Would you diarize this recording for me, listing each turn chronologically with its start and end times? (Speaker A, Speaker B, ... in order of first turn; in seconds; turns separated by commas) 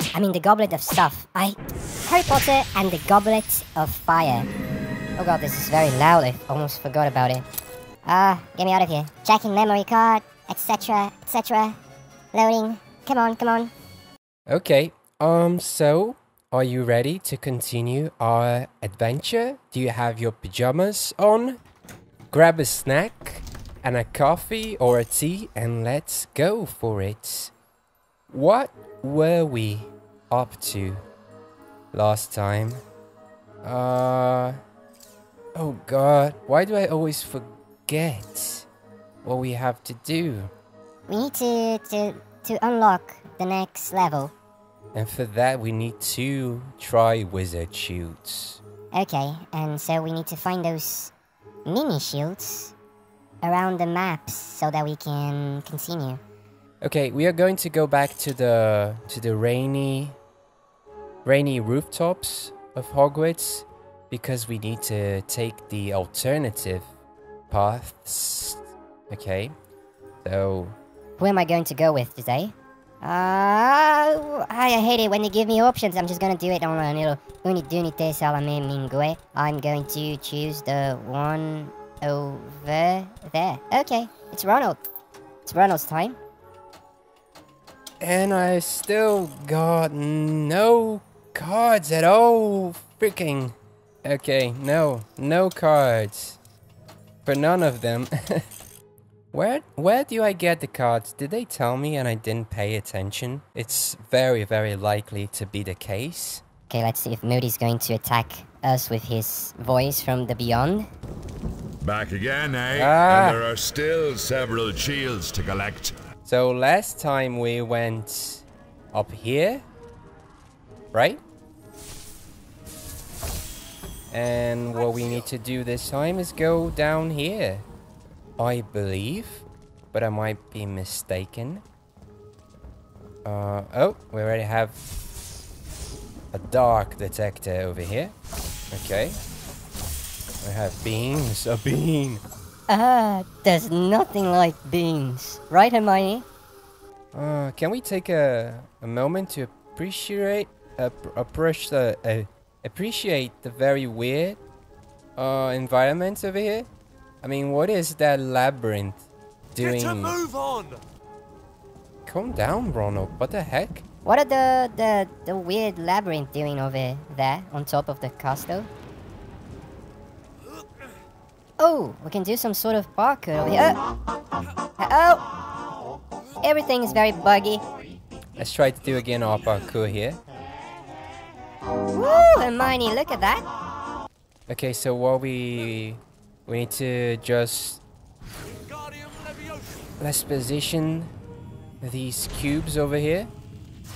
Speaker A: 0.1-4.5, Speaker A: 5.2-7.5, Speaker A: 8.1-11.8, Speaker A: 12.3-13.7, Speaker B: 14.5-21.6, Speaker B: 22.3-27.5, Speaker B: 28.3-31.0, Speaker B: 31.9-32.8, Speaker B: 33.6-34.6, Speaker B: 35.5-38.7, Speaker B: 39.2-40.5, Speaker A: 41.1-44.3, Speaker B: 44.9-48.6, Speaker A: 48.9-51.1, Speaker A: 51.7-52.8, Speaker A: 53.4-56.2, Speaker B: 56.8-60.2, Speaker B: 61.2-66.9, Speaker B: 67.5-69.5, Speaker B: 70.2-70.8, Speaker A: 71.2-84.8, Speaker A: 85.5-86.2, Speaker B: 88.0-96.4, Speaker B: 97.2-98.5, Speaker B: 99.3-106.4, Speaker A: 106.7-110.9, Speaker C: 111.8-116.0, Speaker B: 112.7-113.4, Speaker B: 116.3-119.6, Speaker B: 120.9-121.2, Speaker B: 124.1-127.7, Speaker B: 128.4-131.6, Speaker B: 133.2-134.8, Speaker B: 136.3-138.1, Speaker B: 138.7-139.2, Speaker B: 140.4-142.2, Speaker A: 142.7-146.2, Speaker B: 147.1-154.4, Speaker B: 155.2-156.7, Speaker B: 157.2-160.2, Speaker D: 159.6-160.8, Speaker B: 162.1-163.8, Speaker A: 164.1-168.7, Speaker A: 171.6-173.8, Speaker A: 174.8-175.3, Speaker A: 176.4-177.6, Speaker B: 178.4-180.2, Speaker A: 181.9-183.4, Speaker B: 184.5-187.8, Speaker D: 188.6-189.7, Speaker B: 190.0-191.1, Speaker B: 191.8-193.3